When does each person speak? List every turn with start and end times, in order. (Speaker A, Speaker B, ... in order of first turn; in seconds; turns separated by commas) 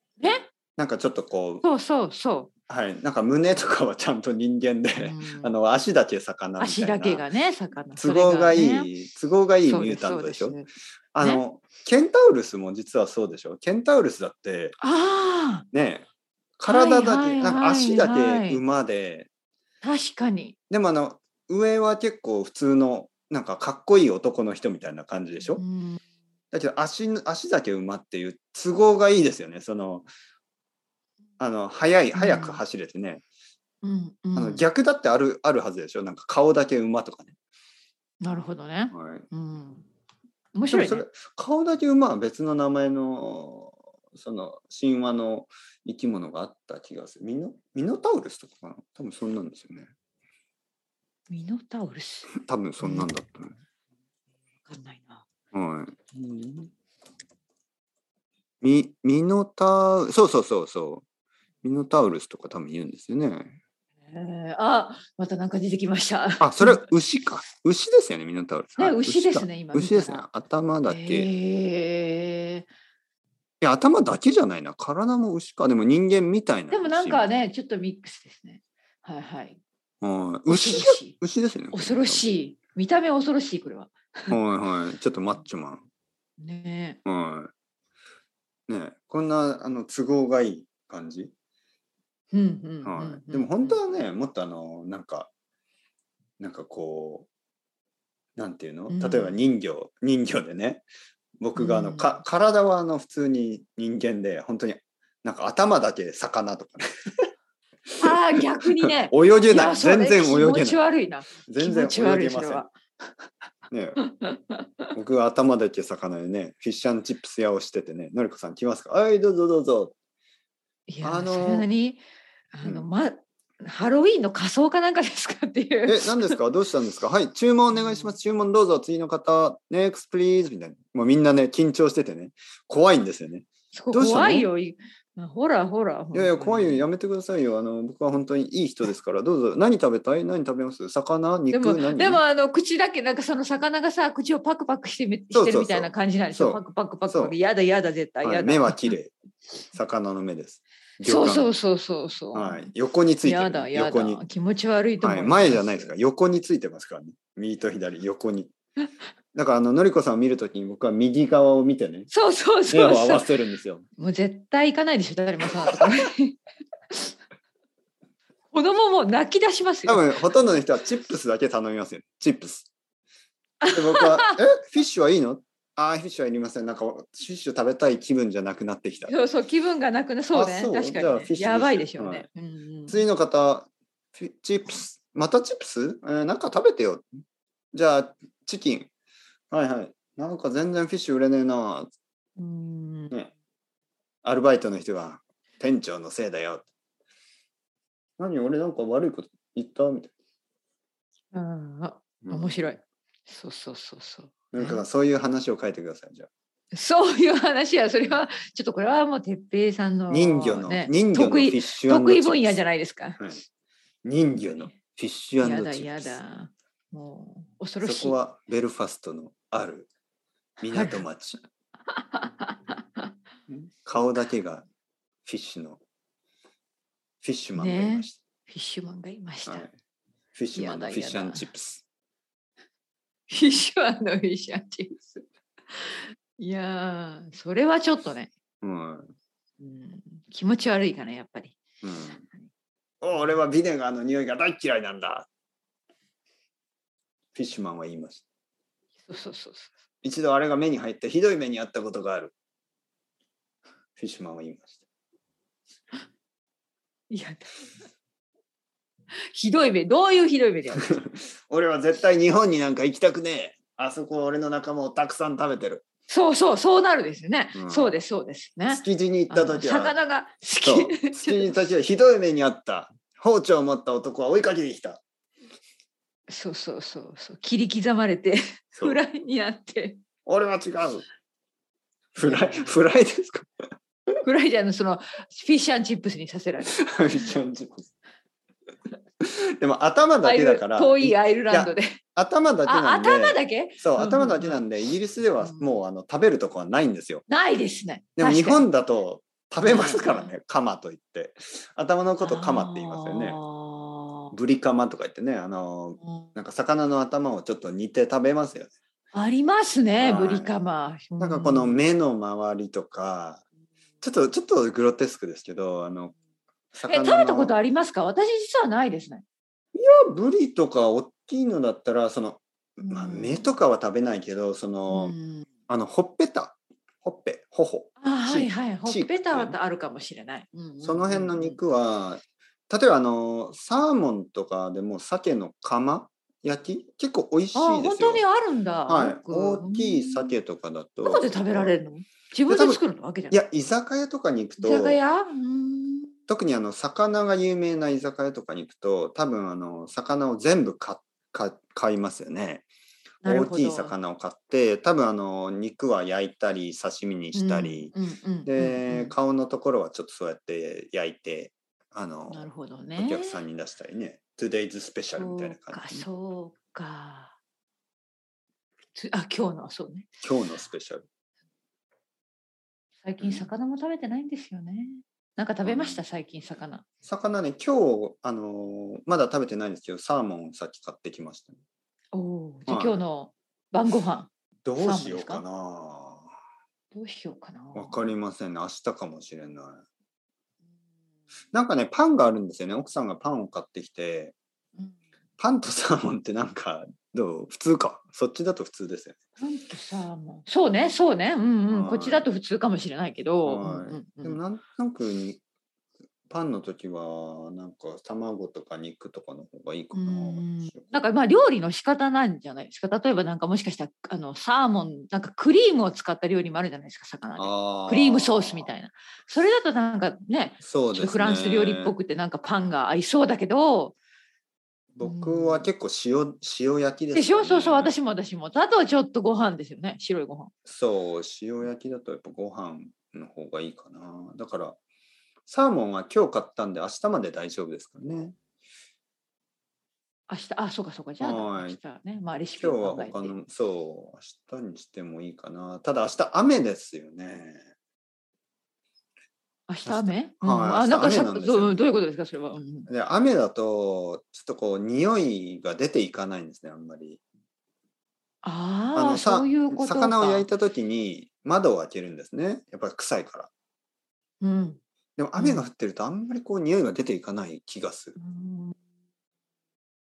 Speaker A: 0.2-0.5, Speaker B: 0.7-1.6, Speaker A: 1.6-2.5, Speaker B: 2.7-7.2, Speaker A: 5.0-5.5, Speaker A: 6.6-8.9, Speaker B: 8.0-10.6, Speaker A: 9.7-10.7, Speaker B: 11.1-14.8, Speaker A: 14.8-15.7, Speaker B: 15.7-16.1, Speaker B: 16.6-19.3, Speaker A: 16.6-18.6, Speaker A: 19.8-20.5, Speaker B: 20.7-25.6, Speaker A: 25.6-26.0, Speaker B: 26.5-30.1, Speaker B: 31.4-33.2, Speaker A: 32.1-32.6, Speaker A: 33.8-34.6, Speaker B: 34.3-37.3, Speaker A: 38.2-39.9, Speaker B: 38.9-39.2, Speaker A: 40.5-41.0, Speaker B: 40.7-49.9, Speaker A: 51.3-53.1, Speaker B: 52.3-53.5, Speaker A: 54.6-55.2, Speaker B: 55.5-56.7, Speaker B: 58.6-61.0, Speaker B: 61.6-63.6, Speaker A: 64.1-66.8, Speaker B: 66.4-71.3, Speaker A: 68.8-70.2, Speaker A: 70.8-72.7, Speaker B: 73.6-77.2, Speaker A: 76.7-79.6, Speaker B: 80.0-82.3, Speaker A: 80.5-81.2, Speaker A: 81.7-84.4, Speaker B: 84.3-85.8, Speaker A: 86.4-87.0, Speaker B: 87.0-87.5, Speaker B: 88.7-91.3, Speaker A: 92.3-93.8, Speaker B: 92.8-95.3, Speaker B: 96.4-97.3, Speaker B: 98.3-100.8, Speaker A: 98.9-99.4, Speaker B: 101.4-107.3, Speaker A: 101.5-102.2, Speaker B: 107.9-110.8, Speaker A: 108.0-112.7, Speaker B: 111.4-112.7, Speaker B: 113.7-114.0, Speaker A: 114.0-114.9, Speaker B: 114.9-119.9, Speaker A: 120.9-122.0, Speaker B: 121.0-121.7, Speaker A: 122.5-126.4, Speaker B: 125.8-134.5, Speaker A: 127.7-128.1, Speaker A: 133.7-136.9, Speaker B: 136.1-142.2, Speaker A: 141.5-148.9, Speaker B: 145.3-147.3, Speaker B: 148.2-149.1, Speaker B: 149.7-151.5, Speaker A: 151.0-152.7, Speaker B: 152.3-154.2, Speaker A: 153.2-155.9, Speaker B: 155.0-158.5, Speaker B: 159.3-162.1, Speaker A: 162.1-163.3, Speaker B: 162.7-163.8, Speaker A: 164.0-166.4, Speaker B: 165.4-166.1, Speaker A: 168.5-170.2, Speaker B: 169.8-172.7, Speaker A: 173.6-174.4, Speaker B: 173.7-179.1, Speaker A: 179.1-183.1, Speaker B: 180.3-182.3, Speaker B: 182.9-187.1, Speaker B: 187.7-188.9, Speaker B: 189.5-191.9, Speaker A: 192.4-193.1, Speaker B: 194.2-196.7, Speaker B: 198.2-200.1, Speaker A: 201.3-204.8, Speaker B: 202.2-202.7, Speaker B: 204.5-206.3, Speaker A: 206.7-213.3, Speaker B: 210.1-212.6, Speaker B: 214.0-216.2, Speaker A: 215.4-218.2, Speaker B: 217.8-219.9, Speaker B: 220.6-221.4, Speaker A: 220.7-221.0, Speaker A: 221.9-223.1, Speaker B: 223.5-224.7, Speaker B: 225.2-225.8, Speaker B: 227.2-228.2, Speaker A: 227.6-229.7, Speaker B: 229.5-229.7, Speaker B: 230.3-231.8, Speaker A: 230.5-231.5, Speaker A: 233.3-238.3, Speaker B: 238.6-239.1, Speaker A: 239.6-241.6, Speaker B: 241.8-242.2, Speaker B: 243.0-245.3, Speaker B: 247.3-248.2, Speaker A: 249.1-249.7, Speaker B: 250.0-252.3, Speaker B: 254.0-254.8, Speaker A: 257.1-257.5, Speaker A: 259.3-261.0, Speaker B: 260.8-265.8, Speaker A: 266.1-271.5, Speaker B: 267.5-267.9, Speaker B: 268.7-269.9, Speaker B: 270.6-275.0, Speaker A: 276.3-280.0, Speaker B: 280.2-281.1, Speaker B: 282.1-283.6, Speaker A: 282.2-282.7, Speaker A: 284.2-286.9, Speaker B: 286.6-287.9, Speaker B: 289.2-297.2, Speaker A: 290.2-292.0, Speaker A: 292.6-294.6, Speaker A: 297.3-298.7, Speaker B: 298.2-303.4, Speaker A: 299.6-300.3, Speaker A: 302.2-304.3, Speaker B: 304.3-308.7, Speaker A: 309.1-311.8, Speaker B: 310.0-310.5, Speaker B: 311.2-313.4, Speaker B: 314.0-316.1, Speaker B: 316.7-317.5, Speaker A: 316.9-319.2, Speaker B: 319.7-325.1, Speaker A: 322.8-323.5, Speaker A: 324.9-325.4, Speaker B: 325.7-329.6, Speaker A: 328.0-331.6, Speaker B: 330.8-338.2, Speaker A: 337.5-340.3, Speaker B: 338.9-341.7, Speaker A: 341.0-343.4, Speaker B: 342.5-345.0, Speaker A: 344.6-346.1, Speaker B: 346.3-352.7, Speaker A: 353.2-353.9, Speaker B: 353.2-357.9, Speaker A: 357.3-359.1, Speaker B: 358.4-366.1, Speaker A: 362.3-363.4, Speaker A: 365.2-367.4, Speaker A: 368.9-370.1, Speaker B: 370.2-371.0, Speaker A: 373.0-376.8, Speaker B: 373.2-373.5, Speaker B: 375.6-376.0, Speaker B: 377.0-381.6, Speaker A: 382.1-385.4, Speaker B: 382.7-383.0, Speaker B: 384.6-386.3, Speaker A: 386.9-388.0, Speaker B: 387.7-389.8, Speaker B: 391.5-394.3, Speaker B: 395.4-399.2, Speaker A: 399.4-404.4, Speaker B: 401.7-402.3, Speaker B: 403.4-405.4, Speaker B: 406.3-410.9, Speaker A: 409.9-423.9, Speaker B: 417.4-418.7, Speaker B: 420.6-421.9, Speaker B: 424.9-427.9, Speaker A: 425.0-425.7, Speaker A: 427.1-430.5, Speaker B: 430.6-434.8, Speaker B: 435.4-438.4, Speaker A: 440.3-443.3, Speaker B: 441.2-441.8, Speaker B: 442.6-447.6, Speaker A: 449.7-452.9, Speaker B: 449.9-451.8, Speaker B: 452.9-457.2, Speaker A: 458.4-460.5, Speaker B: 458.9-463.5, Speaker A: 464.4-464.8, Speaker B: 465.2-468.1, Speaker A: 465.4-465.7, Speaker A: 468.2-468.7